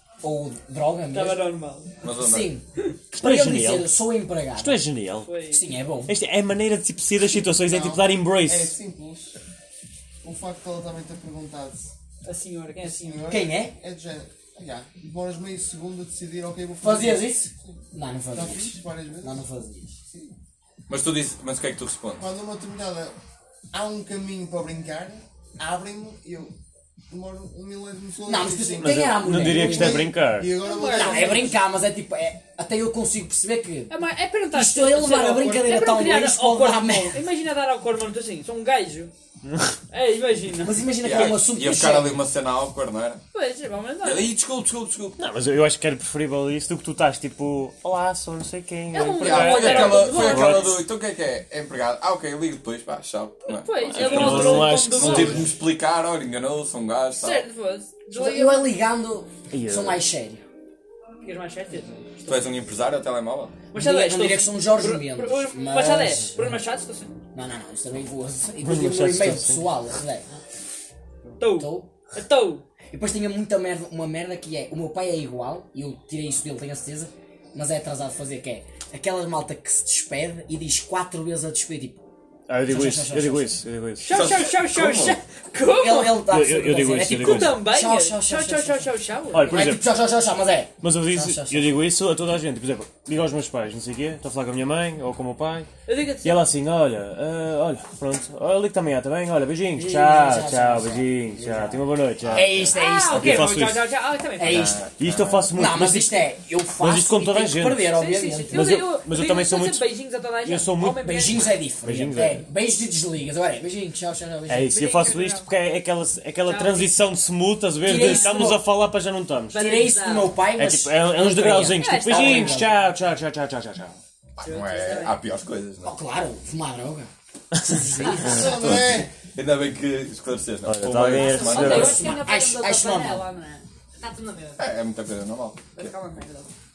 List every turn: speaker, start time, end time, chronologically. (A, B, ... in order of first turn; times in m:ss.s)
0:00.2-0:01.4 A
0:01.1-0:01.9 B
0:02.0-0:02.5 C
0:02.1-0:04.8 A
0:03.1-0:03.9 D
0:04.6-0:05.3 D
0:05.2-0:05.6 B
0:05.5-0:06.1 A
0:06.1-0:08.8 D
0:07.6-0:09.4 E
0:10.2-0:11.9 E
0:12.2-0:13.3 B
0:12.8-0:17.8 E
0:13.3-0:13.7 A
0:16.8-0:19.9 A
0:18.3-0:19.4 E
0:20.1-0:20.4 E
0:20.9-0:22.3 C
0:22.2-0:23.2 E
0:23.7-0:26.5 E
0:27.1-0:31.6 E
0:28.3-0:30.1 A
0:28.8-0:30.6 D
0:30.6-0:31.5 B
0:30.9-0:34.0 A
0:33.9-0:39.1 B
0:34.5-0:37.2 A
0:39.4-0:39.8 D
0:39.9-0:40.8 B
0:40.6-0:42.2 A
0:41.0-0:43.2 C
0:43.3-0:44.3 B
0:44.0-0:45.2 C
0:45.2-0:50.8 D
0:48.9-0:50.8 B
0:49.2-0:57.5 C
0:53.5-0:55.5 B
0:53.9-0:55.5 D
0:57.2-0:58.7 B
0:58.1-1:00.4 A
0:59.5-1:00.0 D
1:01.2-1:02.6 B
1:02.3-1:03.6 C
1:03.7-1:07.2 B
1:03.7-1:06.3 A
1:07.3-1:10.3 A
1:08.6-1:09.6 D
1:11.4-1:12.7 B
1:11.6-1:11.9 A
1:12.9-1:22.1 A
1:22.5-1:24.1 D
1:22.7-1:23.6 A
1:24.0-1:26.2 B
1:24.1-1:25.2 C
1:25.6-1:31.7 A
1:26.3-1:27.6 D
1:27.1-1:29.5 B
1:29.3-1:29.8 D
1:30.8-1:35.7 D
1:35.9-1:36.4 B
1:36.2-1:43.9 D
1:39.8-1:43.5 A
1:42.2-1:43.5 C
1:42.7-1:44.7 B
1:44.4-1:44.8 A
1:44.4-1:45.6 C
1:45.0-1:47.9 D
1:45.5-1:48.7 A
1:47.9-1:51.5 B
1:48.5-1:49.8 D
1:50.4-1:51.0 D
1:51.0-1:54.9 A
1:51.8-1:52.5 D
1:54.5-1:59.6 D
1:54.7-1:55.5 B
1:56.4-1:57.0 B
1:57.8-1:58.6 A
1:57.9-1:58.4 B
1:59.5-2:00.4 B
1:59.5-2:02.7 A
2:00.6-2:04.0 D
2:01.8-2:02.7 B
2:04.4-2:06.0 C
2:04.4-2:05.2 B
2:05.8-2:08.7 A
2:08.2-2:09.1 E
2:08.4-2:12.1 C
2:10.7-2:12.2 D
2:11.2-2:14.6 B
2:11.5-2:13.3 A
2:14.6-2:15.9 C
2:15.8-2:16.5 B